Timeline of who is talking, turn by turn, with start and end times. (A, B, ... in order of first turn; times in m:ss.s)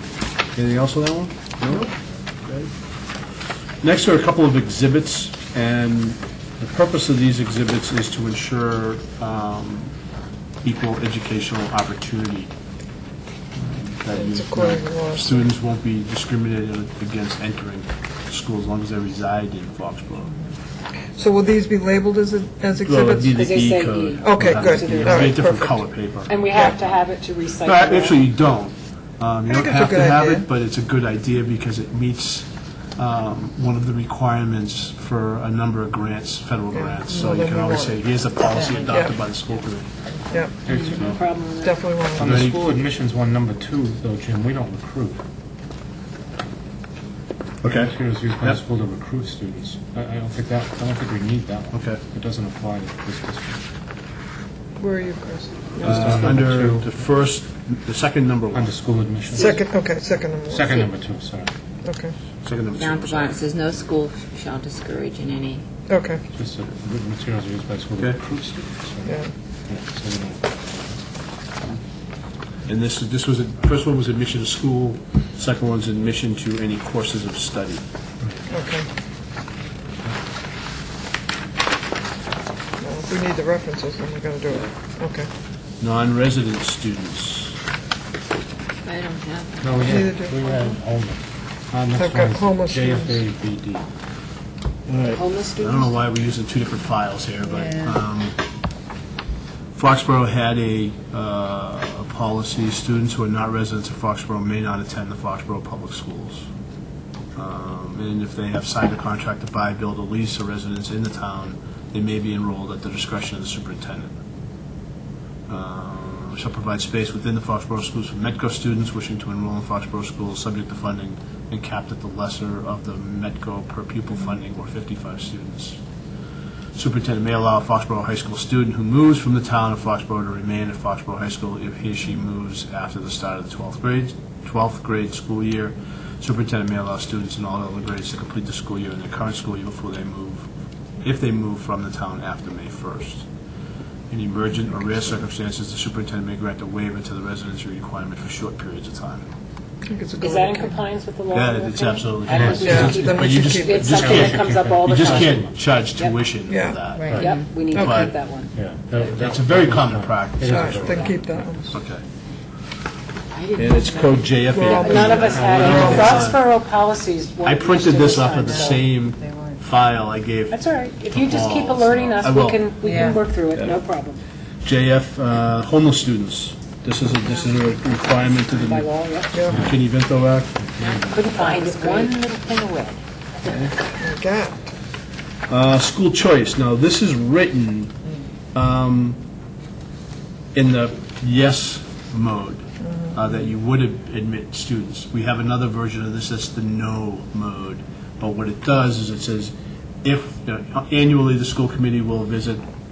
0:00.5-0:01.9 A
0:02.4-0:02.7 A
0:03.8-0:09.9 A
0:10.6-0:12.5 A
0:13.5-0:20.3 A
0:14.1-0:15.5 B
0:21.1-0:23.4 B
0:22.8-0:26.9 A
0:23.3-0:25.4 C
0:24.2-0:25.9 B
0:26.2-0:28.2 C
0:27.6-0:39.9 A
0:29.5-0:30.4 B
0:36.7-0:38.0 B
0:38.4-0:39.2 D
0:38.8-0:39.2 B
0:40.3-0:40.6 B
0:40.6-0:41.2 E
0:40.6-0:41.0 D
0:41.0-0:41.8 C
0:41.6-0:42.4 B
0:42.2-0:45.2 E
0:42.2-0:42.6 A
0:47.6-0:48.6 A
0:47.6-0:53.6 E
0:51.7-0:52.0 A
0:54.8-0:56.2 B
0:55.8-0:57.0 E
0:55.8-0:58.7 A
0:58.5-0:59.6 E
0:59.3-1:00.9 B
1:00.5-1:01.5 E
1:01.8-1:02.1 B
1:02.4-1:03.5 A
1:02.8-1:05.6 D
1:05.9-1:06.2 B
1:06.3-1:11.0 E
1:09.0-1:09.3 B
1:12.6-1:17.8 A
1:18.2-1:18.5 E
1:18.5-1:18.9 B
1:22.8-1:25.3 B
1:25.8-1:27.6 A
1:28.8-1:30.5 D
1:29.6-1:33.8 E
1:29.8-1:30.4 B
1:31.9-1:33.2 B
1:34.9-1:38.4 A
1:35.2-1:35.9 C
1:37.6-1:37.9 D
1:39.7-1:46.5 A
1:47.4-1:54.1 A
1:55.5-2:05.8 A
2:06.7-2:20.5 A
2:21.0-2:23.3 A
2:24.1-2:29.2 A
2:29.8-2:30.8 B
2:30.2-2:35.4 C
2:31.3-2:38.2 A
2:32.3-2:33.0 E
2:32.5-2:34.0 B
2:33.9-2:35.6 E
2:36.5-2:36.8 B
2:36.9-2:37.5 D
2:37.1-2:37.4 E
2:37.1-2:38.5 C
2:37.6-2:38.1 B
2:38.5-2:41.8 E
2:39.0-2:41.1 A
2:40.5-2:41.6 B
2:41.7-2:42.0 A
2:43.3-2:46.2 D
2:43.6-2:46.5 A
2:44.5-2:46.2 B
2:44.6-2:48.9 C
2:47.4-2:53.8 A
2:48.3-2:49.6 D
2:50.5-2:54.2 C
2:52.8-2:53.2 D
2:54.6-2:59.0 A
2:58.2-2:59.5 C
2:59.3-2:59.6 B
2:59.5-2:59.8 E
2:59.5-3:00.5 A
3:00.5-3:01.4 E
3:01.0-3:03.0 C
3:01.4-3:02.1 D
3:03.4-3:03.7 A
3:04.0-3:04.7 B
3:05.5-3:08.0 A
3:08.5-3:09.2 A
3:10.5-3:22.6 A
3:12.8-3:13.1 B